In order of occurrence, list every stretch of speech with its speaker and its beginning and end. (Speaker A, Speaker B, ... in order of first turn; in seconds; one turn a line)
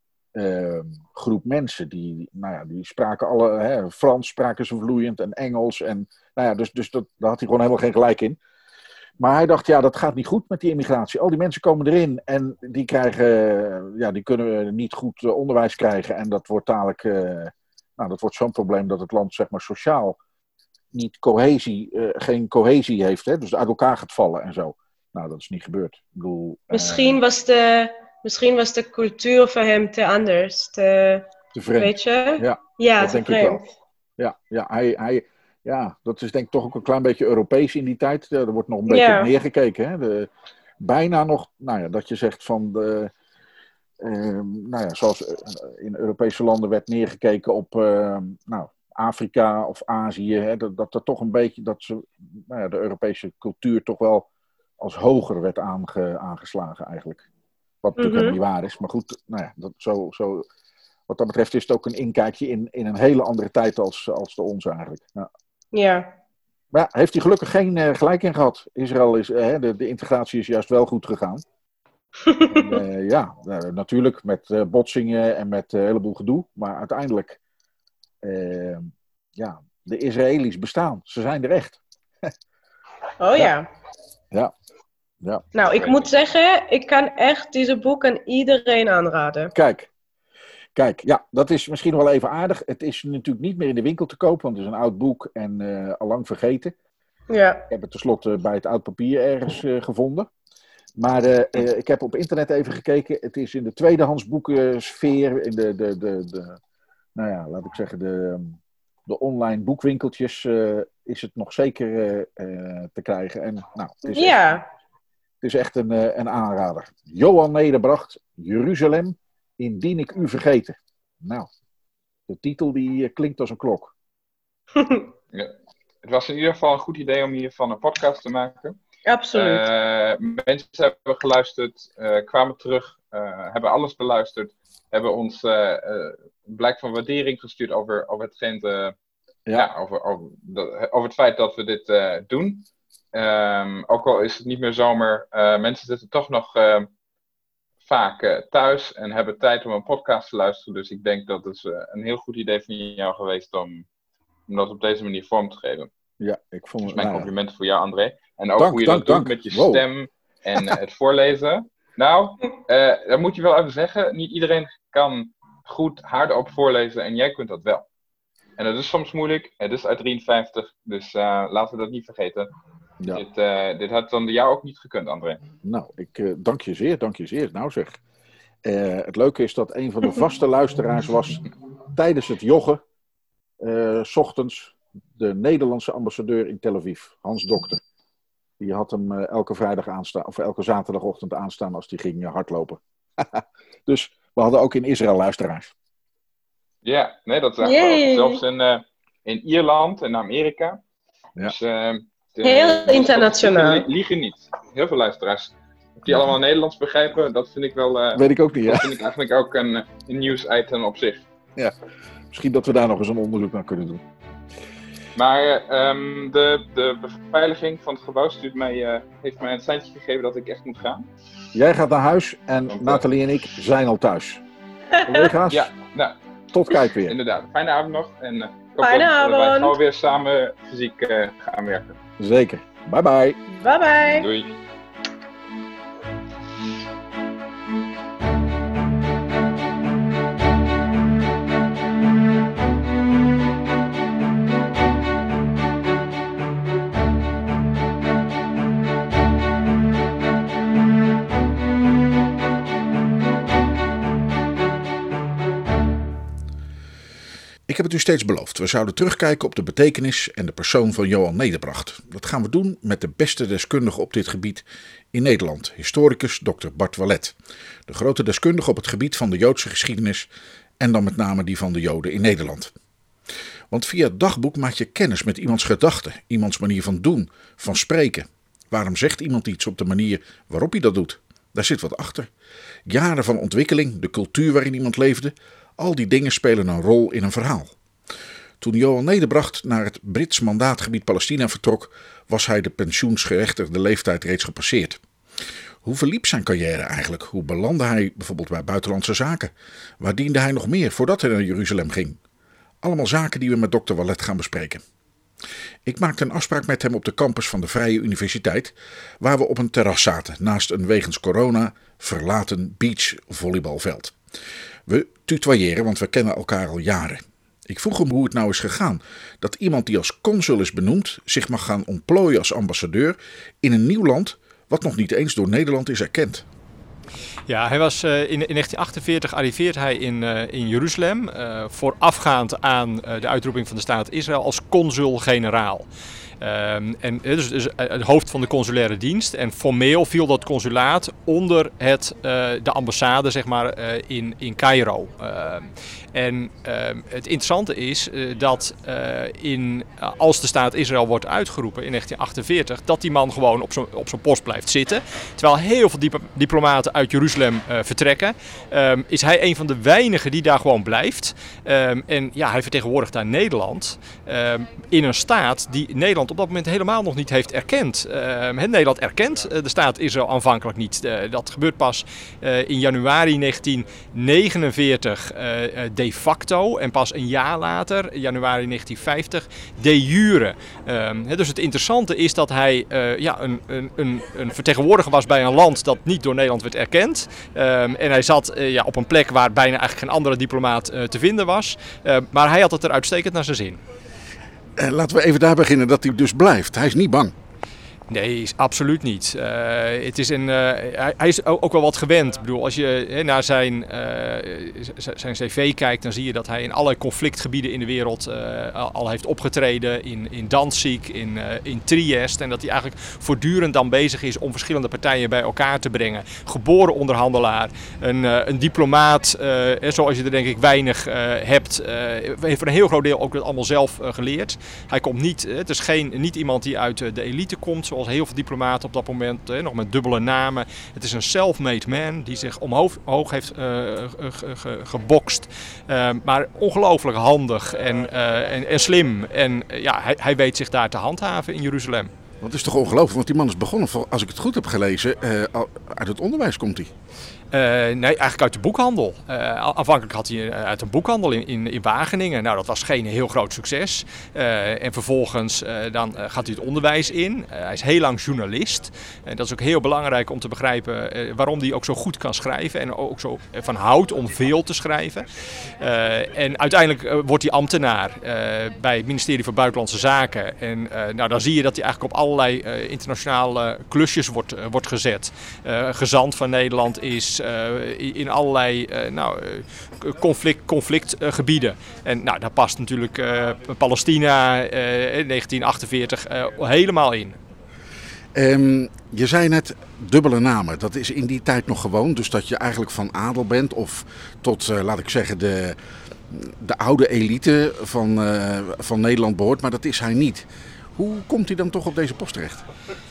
Speaker A: 0.3-8.4
Speaker A: 9.2-20.2
Speaker A: 20.9-27.2
Speaker B: 26.7-31.2
Speaker A: 31.5-40.3
Speaker B: 31.8-33.7
Speaker B: 38.9-39.3
Speaker A: 40.8-43.1
Speaker A: 44.0-54.3
Speaker A: 54.8-57.2
Speaker A: 57.8-60.5
Speaker B: 58.0-58.4
Speaker A: 61.1-65.3
Speaker B: 65.7-66.1
Speaker A: 66.7-71.4
Speaker B: 72.3-72.8
Speaker A: 72.5-77.4
Speaker A: 78.2-81.8
Speaker B: 83.2-83.7
Speaker B: 85.5-89.5
Speaker A: 89.5-89.9
Speaker A: 90.8-96.7
Speaker B: 97.3-97.6
Speaker A: 97.7-100.3
Speaker A: 101.0-106.6
Speaker A: 107.2-114.5
Speaker B: 114.1-114.7
Speaker A: 115.4-121.5
Speaker A: 122.3-123.9
Speaker B: 124.8-125.0
Speaker C: 125.3-128.8
Speaker B: 129.1-129.6
Speaker C: 129.3-138.9
Speaker C: 139.5-146.9
Speaker C: 147.8-153.9
Speaker C: 154.5-155.9
Speaker A: 156.2-157.3
Speaker C: 156.8-167.9
Speaker A: 158.6-159.8
Speaker C: 168.6-172.5
Speaker C: 173.1-175.4
Speaker A: 175.6-178.0
Speaker A: 178.6-182.8
Speaker A: 183.6-187.8
Speaker A: 188.6-195.7
Speaker C: 196.8-200.8
Speaker B: 197.6-198.4
Speaker C: 201.4-211.2
Speaker B: 202.4-203.9
Speaker A: 208.1-208.9
Speaker A: 212.3-214.0
Speaker C: 215.2-221.1
Speaker A: 221.5-224.4
Speaker C: 222.7-223.0
Speaker A: 225.0-225.7
Speaker C: 225.5-226.1
Speaker A: 226.5-227.2
Speaker C: 227.0-231.9
Speaker B: 228.8-229.8
Speaker A: 232.2-233.4
Speaker B: 233.5-234.3
Speaker C: 234.1-234.5
Speaker A: 257.7-267.4
Speaker A: 267.9-270.3
Speaker A: 270.8-272.7
Speaker A: 273.7-282.3
Speaker A: 282.9-287.7
Speaker A: 288.6-295.0
Speaker A: 295.8-302.2
Speaker A: 302.8-304.8
Speaker A: 305.9-314.1
Speaker A: 314.9-326.4
Speaker D: 327.5-335.9
Speaker D: 336.4-393.8
Speaker A: 394.8-397.3
Speaker D: 398.1-442.1
Speaker A: 442.4-446.9
Speaker D: 447.5-487.4
Speaker A: 488.4-495.8
Speaker A: 496.3-502.6